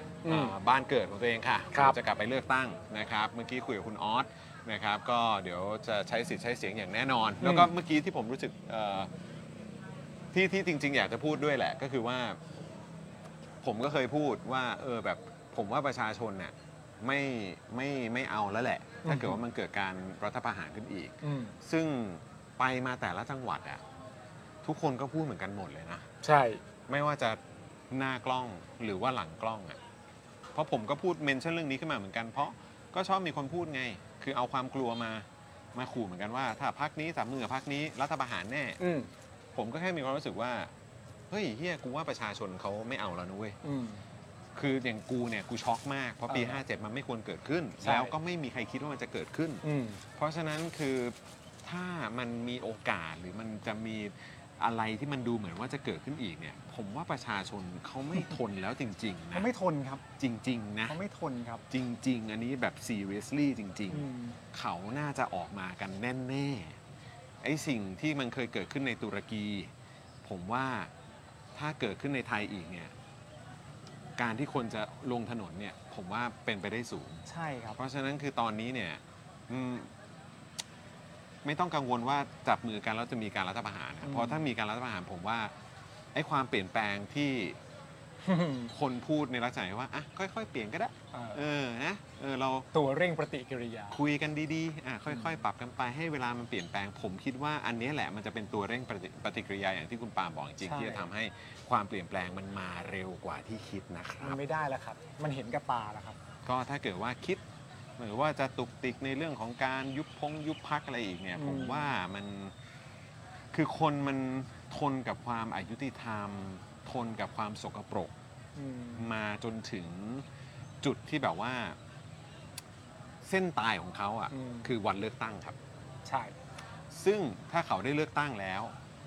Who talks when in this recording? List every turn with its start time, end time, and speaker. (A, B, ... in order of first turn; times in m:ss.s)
0:00.2-0:00.5 A
0:00.2-0:09.1 B
0:07.4-0:07.7 A
0:10.3-0:12.4 B
0:13.6-0:23.8 B
0:19.0-0:19.4 A
0:21.2-0:21.5 A
0:24.6-0:26.0 B
0:26.2-0:26.6 A
0:26.9-0:29.8 B
0:30.5-0:38.8 B
0:38.8-0:39.1 A
0:39.5-0:40.7 B
0:41.3-0:43.6 B
0:43.6-0:44.0 A
0:44.5-0:49.6 B
0:46.3-0:46.6 A
0:47.8-0:48.1 A
0:49.6-0:50.0 A
0:50.2-0:59.5 B
0:59.3-1:00.0 A
1:00.2-1:01.0 B
1:00.8-1:01.6 A
1:01.7-1:06.8 B
1:03.9-1:04.4 A
1:07.4-1:09.7 B
1:10.2-1:10.9 B
1:11.5-1:12.9 B
1:14.2-1:17.2 B
1:17.3-1:17.8 A
1:17.8-1:19.9 B
1:21.4-1:25.5 B
1:24.0-1:24.4 A
1:26.1-1:27.6 B
1:28.2-1:28.7 A
1:28.7-1:32.7 B
1:31.1-1:31.4 A
1:32.7-1:34.0 A
1:33.9-1:44.4 B
1:35.1-1:35.4 A
1:40.6-1:41.1 A
1:44.2-1:46.2 A
1:46.4-1:47.4 B
1:48.0-1:52.5 B
1:51.4-1:51.9 A
1:53.5-1:58.1 B
1:58.6-1:59.1 A
1:59.0-2:00.2 B
2:00.8-2:01.8 B
2:03.2-2:05.6 B
2:04.3-2:04.7 A
2:06.0-2:06.3 A
2:06.9-2:08.7 B